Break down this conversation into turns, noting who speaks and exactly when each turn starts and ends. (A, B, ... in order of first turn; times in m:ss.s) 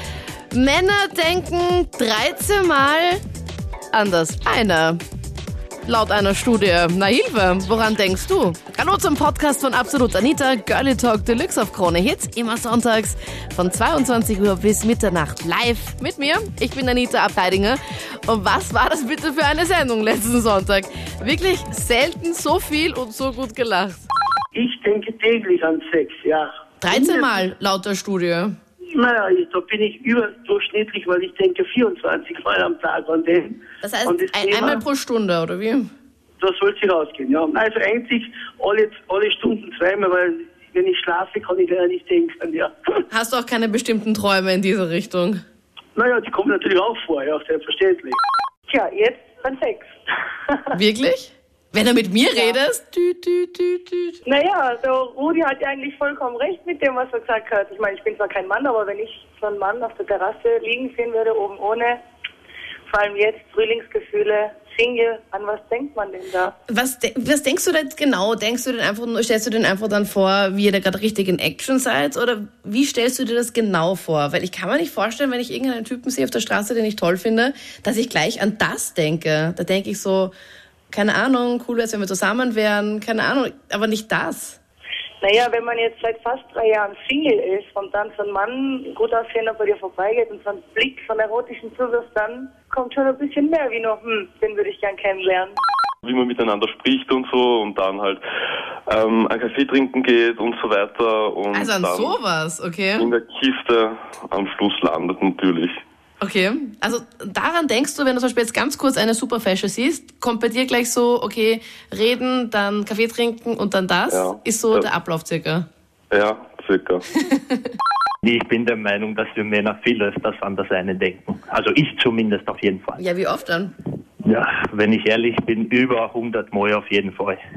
0:00.5-0:03.2 A
0:03.9-0:05.0 A
0:05.8-0:24.1 A
0:24.5-0:27.4 B
0:26.8-0:28.5 A
0:28.9-0:34.8 B
0:33.8-0:35.9 A
0:36.4-0:42.7 B
0:43.1-0:45.4 A
0:46.0-0:48.2 B
0:48.7-0:49.9 C
0:50.7-0:54.2 A
0:54.3-1:02.0 C
1:02.9-1:06.5 C
1:06.7-1:20.3 A
1:20.9-1:24.6 A
1:25.2-1:35.6 C
1:36.0-1:38.2 D
1:38.9-1:42.2 D
1:41.5-1:43.1 A
1:43.0-1:45.8 D
1:46.2-1:55.7 A
1:54.1-1:54.9 D
1:56.1-1:57.0 D
1:58.2-2:03.0 E
2:03.0-2:03.7 A
2:04.2-2:07.4 E